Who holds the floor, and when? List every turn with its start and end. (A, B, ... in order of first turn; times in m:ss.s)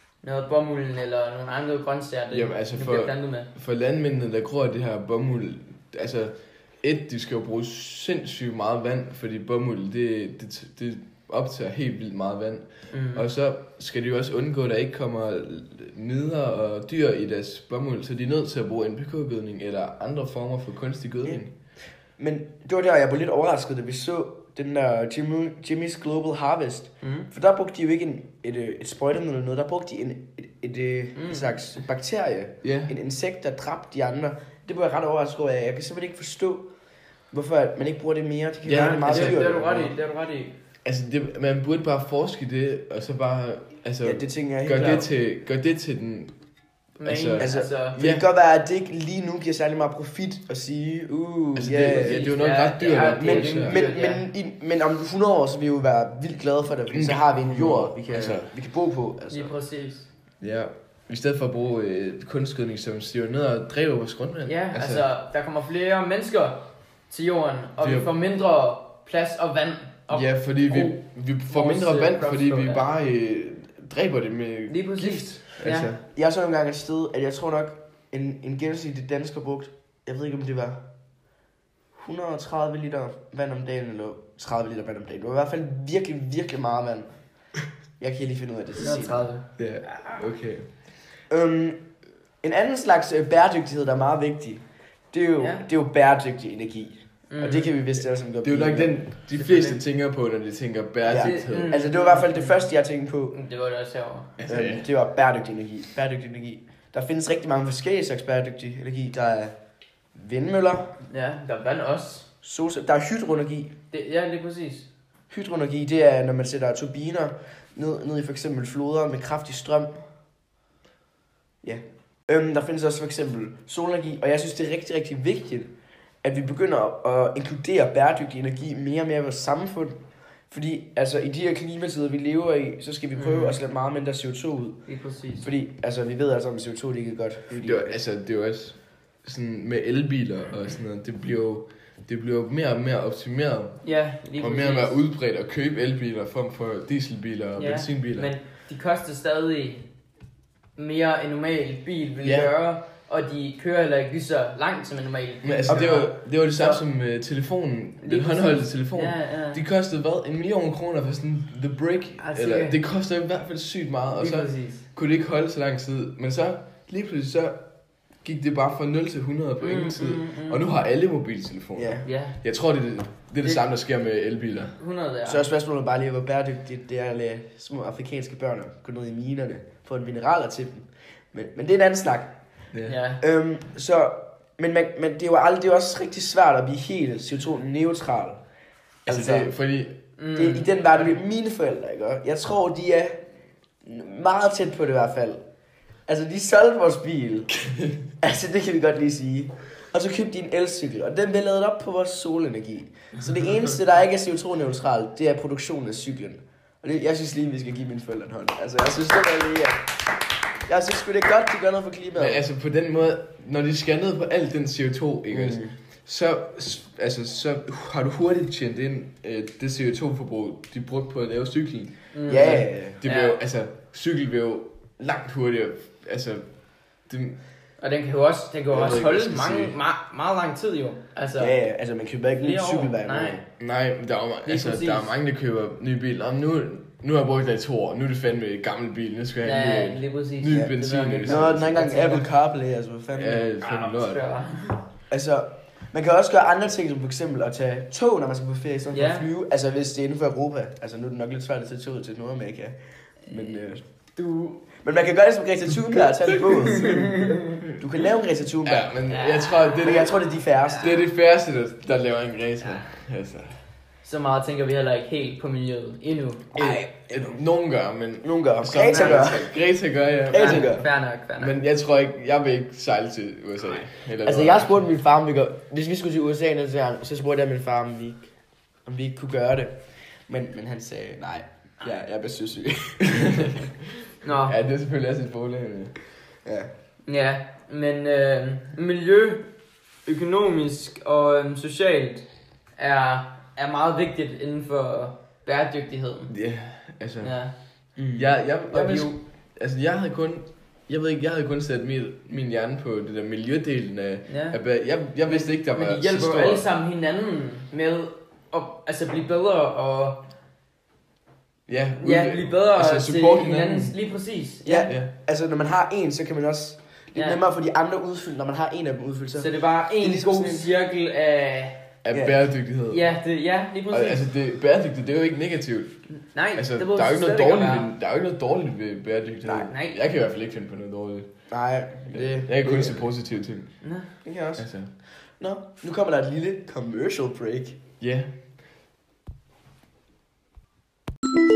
0:00.2-0:03.5 A
0:02.3-0:21.5 B
0:12.9-0:13.3 A
0:22.2-0:36.6 C
0:27.0-0:27.3 A
0:31.2-0:31.6 A
0:32.6-0:32.9 B
0:37.3-0:39.9 C
0:38.6-0:39.7 B
0:39.0-0:40.5 A
0:40.8-0:46.3 B
0:44.0-0:45.1 C
0:44.7-0:45.0 A
0:47.0-0:48.0 A
0:47.0-0:48.2 B
0:47.4-0:52.3 C
0:51.6-0:53.8 B
0:51.8-0:54.2 A
0:53.1-0:59.5 C
0:56.9-0:58.5 B
0:59.3-1:00.1 A
1:00.4-1:05.0 B
1:04.4-1:12.8 A
1:07.8-1:08.1 B
1:10.1-1:16.0 B
1:14.7-1:15.9 A
1:16.0-1:20.8 C
1:22.0-1:27.1 C
1:28.0-1:29.2 C
1:28.8-1:30.2 A
1:29.6-1:30.7 B
1:31.3-1:31.8 C
1:32.4-1:39.0 C
1:35.4-1:35.6 A
1:37.3-1:37.7 A
1:38.4-1:41.7 B
1:39.3-1:39.8 A
1:41.0-1:43.3 C
1:41.1-1:42.6 A
1:43.3-1:44.3 A
1:44.4-1:44.8 B
1:44.5-1:49.5 C
1:50.1-1:50.9 C
1:51.1-1:52.3 A
1:52.4-1:53.7 C
1:53.9-1:54.9 A
1:55.3-2:00.0 C
2:01.6-2:05.7 C
2:06.2-2:10.0 C
2:10.5-2:14.8 C
2:13.2-2:13.6 A
2:14.9-2:15.5 A
2:15.4-2:18.0 C
2:17.5-2:23.8 B
2:23.8-2:25.0 A
2:24.4-2:28.3 B
2:27.5-2:29.9 A
2:30.8-2:36.8 A
2:32.2-2:32.5 B
2:35.4-2:47.6 B
2:35.7-2:36.1 C
2:38.0-2:39.6 A
2:42.2-2:42.8 A
2:44.2-2:44.8 A
2:48.2-2:54.7 B
2:49.6-2:50.6 A
2:51.7-2:52.0 C
2:52.0-2:52.4 A
2:54.8-2:55.4 A
2:55.2-3:02.3 C
3:02.7-3:03.0 B
3:02.9-3:03.2 A
3:03.2-3:08.4 C
3:09.0-3:10.0 B
3:09.1-3:09.5 C
3:10.2-3:11.1 A
3:10.3-3:13.2 C
3:13.8-3:15.4 C
3:16.1-3:17.5 C
3:18.2-3:30.0 C
3:30.6-3:32.4 C
3:32.2-3:46.4 B
3:35.3-3:35.7 C
3:42.1-3:43.4 A
3:42.3-3:43.0 C
3:47.1-3:47.4 B
3:47.8-3:51.5 A
3:48.7-3:49.7 B
3:51.4-3:53.4 C
3:52.4-3:53.4 A
3:53.6-4:01.7 B
3:54.4-3:55.1 A
3:59.4-4:02.2 A
4:01.2-4:03.5 C
4:03.1-4:04.2 B
4:03.6-4:04.8 A
4:05.1-4:13.8 C
4:08.9-4:09.3 A
4:14.2-4:14.7 A
4:14.8-4:18.9 C
4:16.8-4:17.4 A
4:18.6-4:20.1 B
4:19.1-4:19.9 A
4:19.8-4:21.0 C
4:20.8-4:23.6 B
4:24.0-4:26.6 A
4:26.5-4:27.4 C
4:26.5-4:30.8 B
4:28.2-4:29.5 C
4:28.7-4:29.4 A
4:30.3-4:30.8 C
4:30.3-4:31.6 A
4:31.4-4:34.7 B
4:34.2-4:38.2 C
4:38.8-4:39.7 C
4:40.3-4:43.6 C
4:44.2-4:44.5 A
4:44.3-4:45.9 B
4:46.4-4:46.7 C
4:47.0-4:49.5 A
4:50.0-4:52.2 A
4:52.8-4:56.3 A
4:56.3-4:57.3 B
4:57.2-4:57.5 A
4:58.0-4:58.3 C
4:58.2-5:06.7 B
4:58.7-4:59.1 A
5:04.3-5:04.6 A
5:05.3-5:10.2 A
5:11.7-5:14.0 B
5:12.0-5:14.9 A
5:14.6-5:20.7 C
5:17.1-5:17.4 A
5:19.3-5:21.8 A
5:22.0-5:23.1 B
5:22.1-5:22.4 C
5:22.9-5:24.3 A
5:23.9-5:25.9 B
5:26.1-5:27.9 A
5:26.5-5:31.3 B
5:29.5-5:30.0 A
5:31.5-5:33.1 C
5:32.1-5:33.7 B
5:33.8-5:34.1 A
5:34.2-5:34.7 C
5:34.6-5:34.9 B
5:35.4-5:37.8 C
5:38.0-5:38.3 B